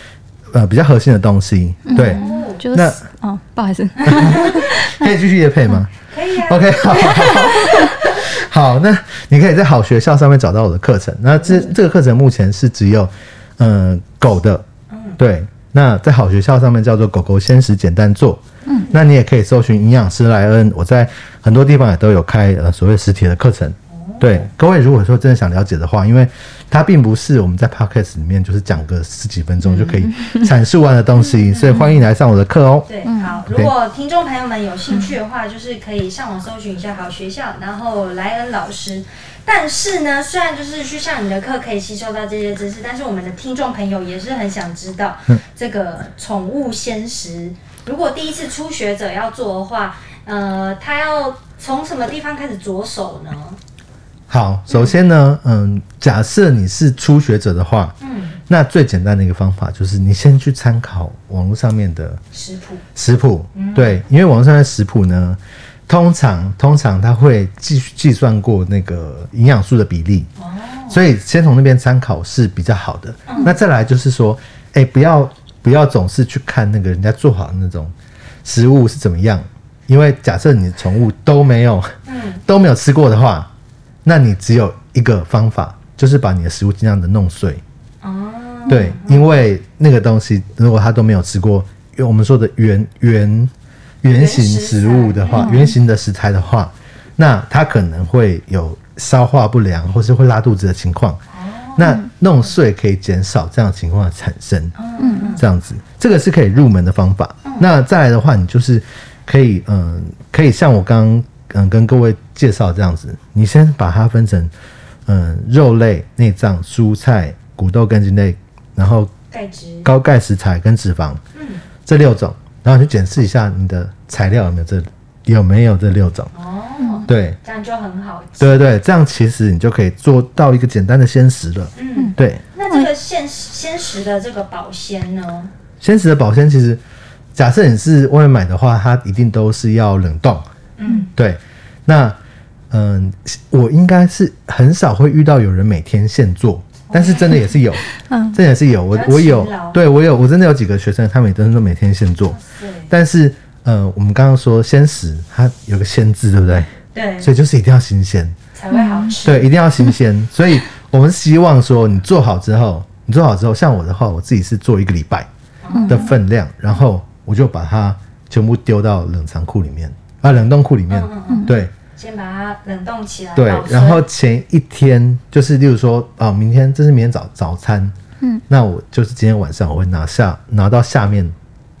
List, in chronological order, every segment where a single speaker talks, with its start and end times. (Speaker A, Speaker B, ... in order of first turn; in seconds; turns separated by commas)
Speaker A: 0.5-3.0, Speaker B: 1.9-5.1, Speaker C: 2.0-2.6, Speaker A: 4.0-5.9, Speaker C: 6.1-7.9, Speaker A: 6.4-14.6, Speaker B: 7.1-7.9, Speaker C: 14.9-15.2, Speaker A: 15.2-32.9, Speaker C: 23.9-24.5, Speaker B: 31.7-31.9, Speaker C: 32.9-53.6, Speaker B: 33.0-33.4, Speaker A: 54.3-58.0, Speaker C: 58.0-58.4, Speaker A: 58.5-62.2, Speaker C: 62.3-62.8, Speaker A: 63.0-70.3, Speaker C: 63.5-64.0, Speaker C: 70.4-71.0, Speaker A: 70.9-77.9, Speaker C: 73.3-73.5, Speaker A: 78.4-81.9, Speaker C: 82.0-82.4, Speaker A: 82.5-83.5, Speaker A: 84.0-87.6, Speaker C: 88.0-89.3, Speaker A: 88.7-101.2, Speaker C: 94.1-95.6, Speaker B: 95.3-95.7, Speaker C: 101.3-101.9, Speaker A: 101.8-104.8, Speaker C: 104.8-105.4, Speaker B: 105.0-105.4, Speaker A: 105.4-114.5, Speaker A: 115.0-119.1, Speaker C: 119.3-119.9, Speaker A: 119.8-121.2, Speaker C: 121.3-121.6, Speaker A: 121.8-126.3, Speaker C: 126.3-128.6, Speaker B: 126.8-127.1, Speaker A: 127.1-127.4, Speaker A: 128.4-132.4, Speaker C: 131.7-135.5, Speaker A: 135.8-136.8, Speaker A: 137.3-140.4, Speaker C: 140.8-141.1, Speaker A: 141.2-142.2, Speaker A: 142.7-152.4, Speaker C: 146.9-147.3, Speaker B: 148.0-148.4, Speaker C: 148.9-149.8, Speaker C: 152.3-152.9, Speaker A: 152.9-158.3, Speaker C: 156.9-157.3, Speaker C: 158.5-159.5, Speaker B: 158.7-159.1, Speaker A: 159.2-165.3, Speaker C: 165.6-166.1, Speaker B: 165.7-166.1, Speaker A: 165.9-171.7, Speaker C: 170.9-174.0, Speaker B: 171.3-171.6, Speaker A: 173.3-177.9, Speaker A: 178.5-181.3